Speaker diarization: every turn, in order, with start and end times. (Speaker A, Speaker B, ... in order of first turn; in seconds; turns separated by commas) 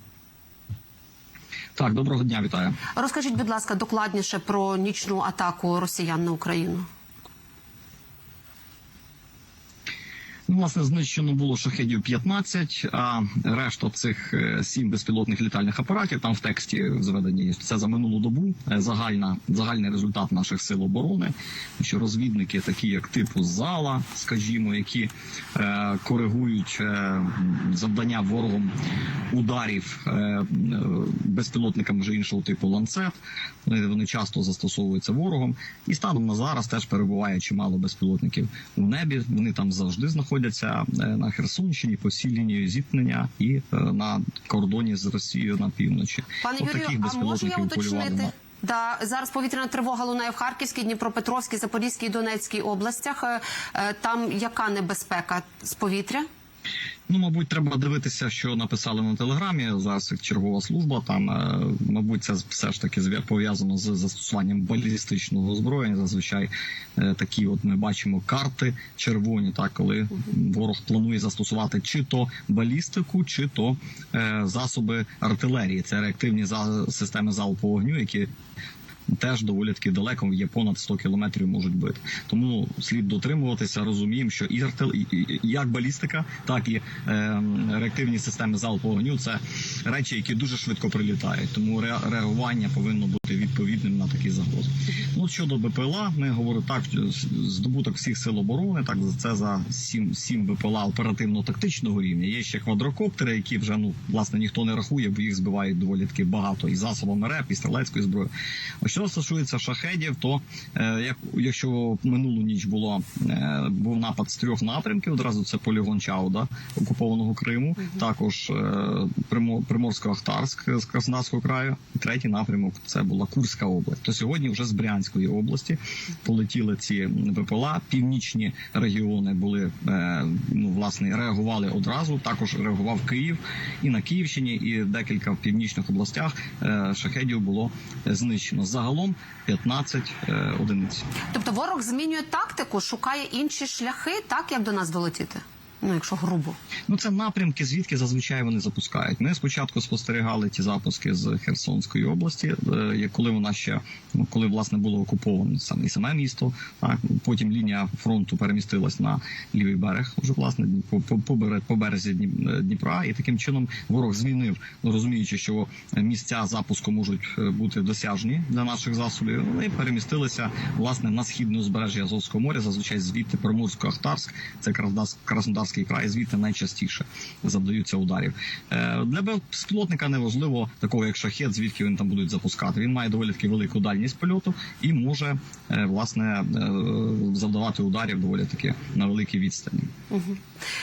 Speaker A: 1.8-2.8, Speaker B: 3.0-6.9, Speaker A: 10.5-28.7, Speaker A: 29.3-33.1, Speaker A: 33.6-48.3, Speaker B: 46.4-56.2, Speaker A: 57.1-78.3, Speaker A: 79.1-108.3, Speaker A: 108.8-141.1, Speaker B: 141.3-146.6, Speaker A: 146.9-189.9, Speaker B: 190.1-190.4